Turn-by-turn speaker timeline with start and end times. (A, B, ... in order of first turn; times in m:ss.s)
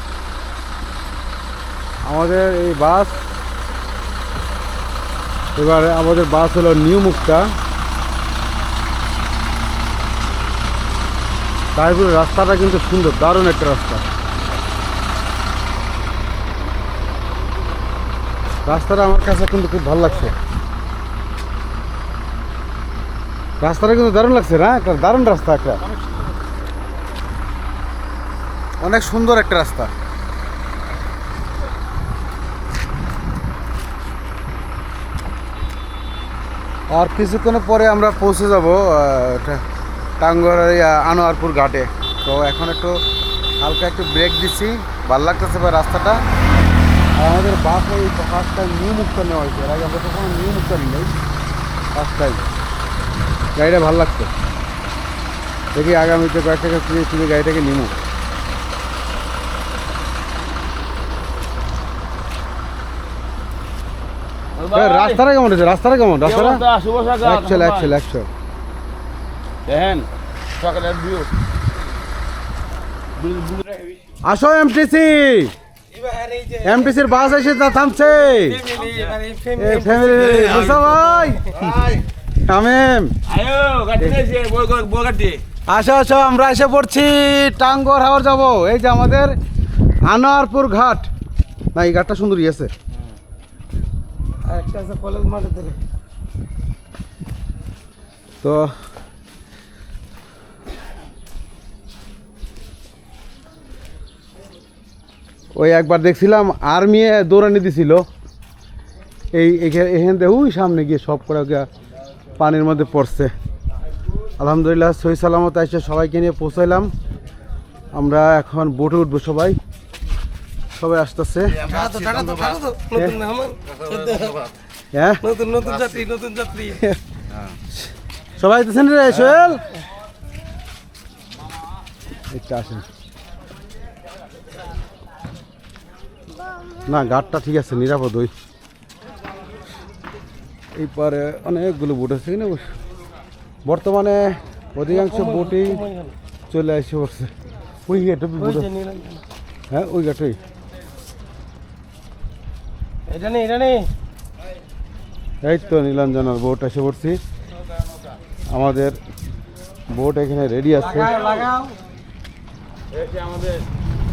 0:02.0-0:03.2 A
0:05.6-0:07.5 A
0:11.7-0:14.0 A
0:18.6-0:20.4 A
0:23.6-0:25.8 A
0:28.8-0:29.9 A
0:36.9-0:39.6 A
0:40.2-0:43.0 A
0:43.6-0:46.2 A
0:47.2-0:51.1 A
0:51.9-0:52.4 A
0:53.6-0:54.3 A
0:55.7-0:57.9 A
1:04.6-1:05.2 B
1:04.7-1:06.6 A
1:06.2-1:07.9 B
1:07.2-1:08.3 A
1:09.6-1:10.1 B
1:10.6-1:11.3 B
1:13.2-1:14.0 B
1:14.2-1:15.5 A
1:16.0-1:16.8 C
1:16.6-1:18.6 A
1:18.3-1:21.4 C
1:19.6-1:21.5 A
1:22.4-1:23.1 A
1:23.2-1:25.4 B
1:25.7-1:29.3 A
1:30.0-1:31.1 A
1:31.7-1:32.7 A
1:34.4-1:35.8 C
1:38.4-1:38.7 A
1:45.5-1:48.0 A
1:49.3-1:51.7 A
1:52.4-1:53.3 A
1:54.4-1:56.9 A
1:57.9-1:59.6 A
2:00.7-2:01.7 A
2:01.6-2:04.5 C
2:02.9-2:03.2 A
2:04.9-2:05.2 A
2:05.2-2:06.8 C
2:06.7-2:07.0 A
2:08.4-2:09.6 A
2:12.3-2:12.8 A
2:16.9-2:18.3 A
2:20.7-2:22.6 A
2:23.6-2:25.9 A
2:24.9-2:26.1 C
2:26.5-2:27.3 A
2:27.9-2:28.7 A
2:28.4-2:29.2 C
2:29.7-2:30.4 A
2:33.1-2:33.9 C
2:35.4-2:37.2 A
2:38.5-2:39.0 A
2:39.9-2:41.3 A
2:40.9-2:41.8 C
2:42.9-2:43.6 B